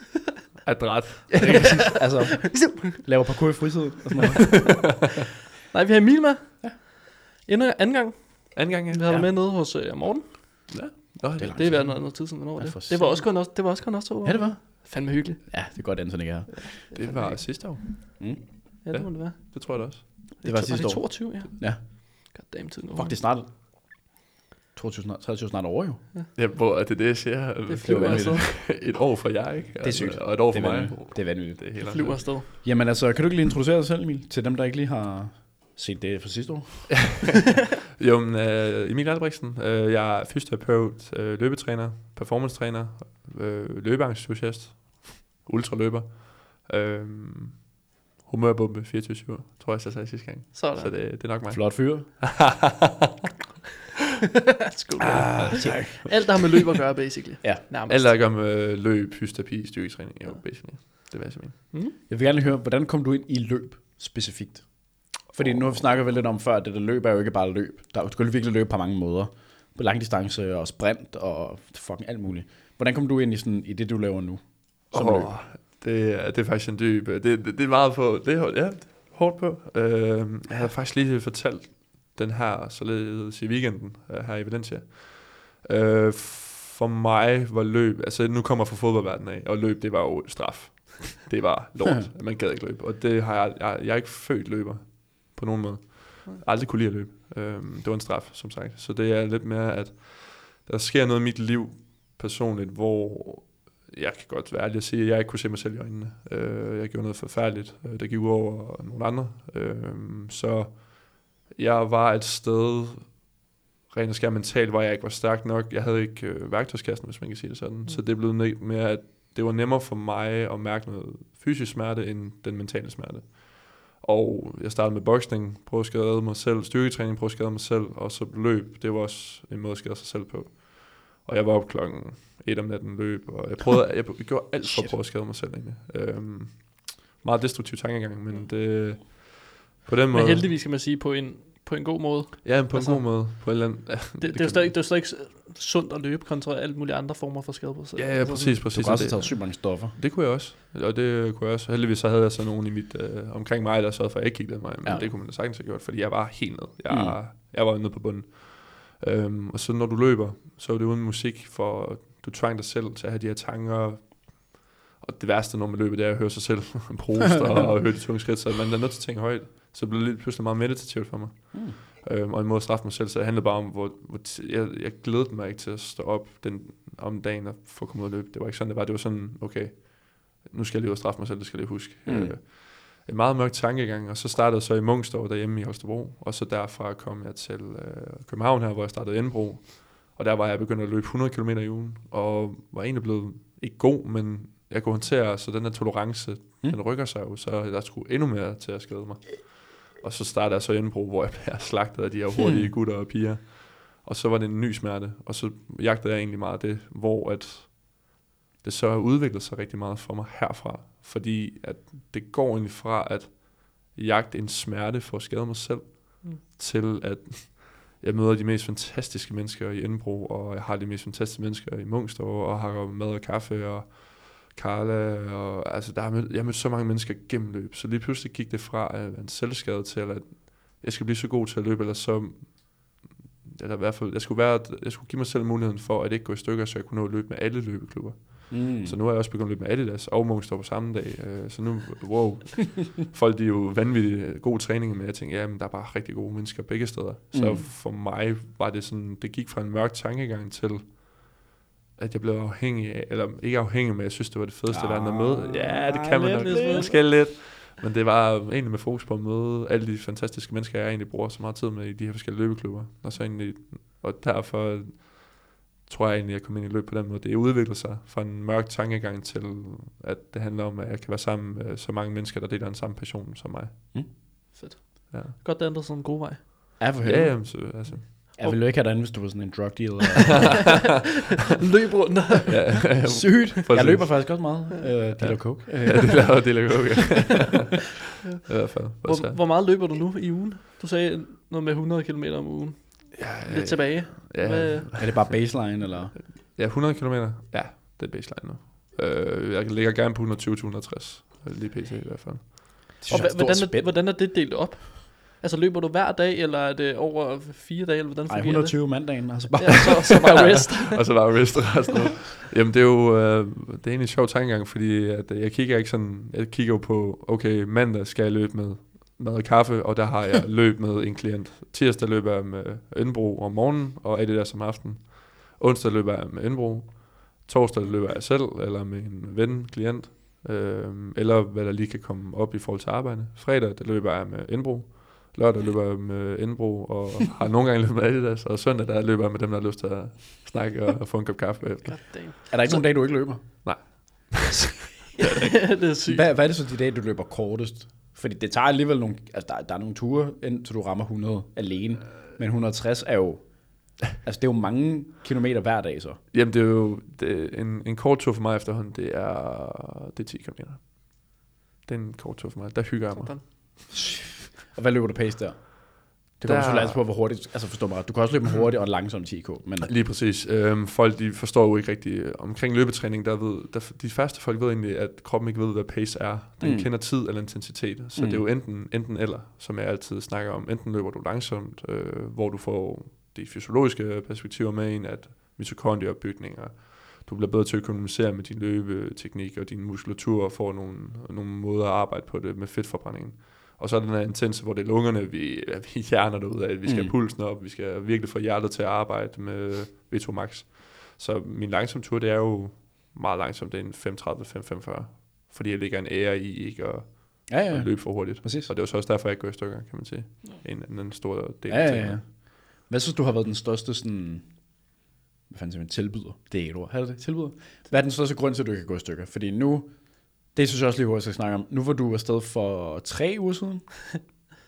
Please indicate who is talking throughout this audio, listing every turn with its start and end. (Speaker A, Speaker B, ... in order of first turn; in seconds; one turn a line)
Speaker A: 0.6-2.0
Speaker B: 1.3-4.6
Speaker C: 1.5-2.0
Speaker C: 2.5-2.8
Speaker A: 4.4-5.0
Speaker C: 4.7-5.1
Speaker C: 5.7-10.7
Speaker A: 8.6-9.1
Speaker A: 10.7-11.9
Speaker B: 11.4-13.3
Speaker C: 11.6-15.4
Speaker B: 14.2-16.7
Speaker C: 16.9-17.4
Speaker A: 16.9-18.1
Speaker C: 18.9-23.2
Speaker A: 18.9-20.0
Speaker B: 20.4-21.8
Speaker B: 22.9-23.5
Speaker B: 24.7-26.0
Speaker A: 26.4-32.4
Speaker C: 27.7-28.5
Speaker B: 27.9-28.5
Speaker B: 29.8-31.6
Speaker C: 31.8-32.5
Speaker B: 32.6-37.2
Speaker A: 37.0-53.1
Speaker C: 50.5-50.9
Speaker B: 51.5-52.1
Speaker C: 54.5-58.1
Speaker A: 55.0-56.6
Speaker B: 55.4-56.2
Speaker A: 57.9-61.7
Speaker B: 62.1-75.3
Speaker A: 74.9-113.3
Speaker A: 113.9-140.5
Speaker B: 134.6-134.9
Speaker C: 140.1-143.6
Speaker A: 142.4-144.8
Speaker C: 144.2-148.7
Speaker A: 148.0-251.3
Speaker B: 148.7-150.0
Speaker B: 156.9-157.2
Speaker B: 182.1-182.4
Speaker B: 202.4-202.7
Speaker B: 238.5-239.0
Speaker B: 247.3-247.7
Speaker A: 252.0-273.8
Speaker B: 254.7-256.9
Speaker C: 256.2-256.9
Speaker C: 274.5-276.8
Speaker A: 275.1-275.4
Speaker B: 276.8-280.7
Speaker A: 277.0-278.1
Speaker C: 281.6-282.9
Speaker A: 282.5-284.4
Speaker B: 283.0-286.6
Speaker A: 285.2-289.4
Speaker C: 288.2-295.1
Speaker A: 293.2-295.3
Speaker B: 294.9-296.1
Speaker A: 296.4-302.9
Speaker B: 303.0-303.9
Speaker C: 303.1-311.5
Speaker B: 308.3-310.6
Speaker A: 310.2-342.2
Speaker C: 341.9-342.6
Speaker B: 342.5-343.4
Speaker A: 343.6-345.5
Speaker C: 345.2-346.3
Speaker B: 346.1-353.6
Speaker B: 354.1-356.2
Speaker A: 356.3-361.3
Speaker A: 361.9-363.5
Speaker C: 363.1-363.4
Speaker B: 363.9-369.9
Speaker A: 366.4-367.0
Speaker A: 369.8-412.2
Speaker B: 376.6-376.9
Speaker B: 378.1-378.4
Speaker B: 396.9-397.1
Speaker B: 407.5-408.7
Speaker B: 411.7-414.5
Speaker B: 415.5-424.2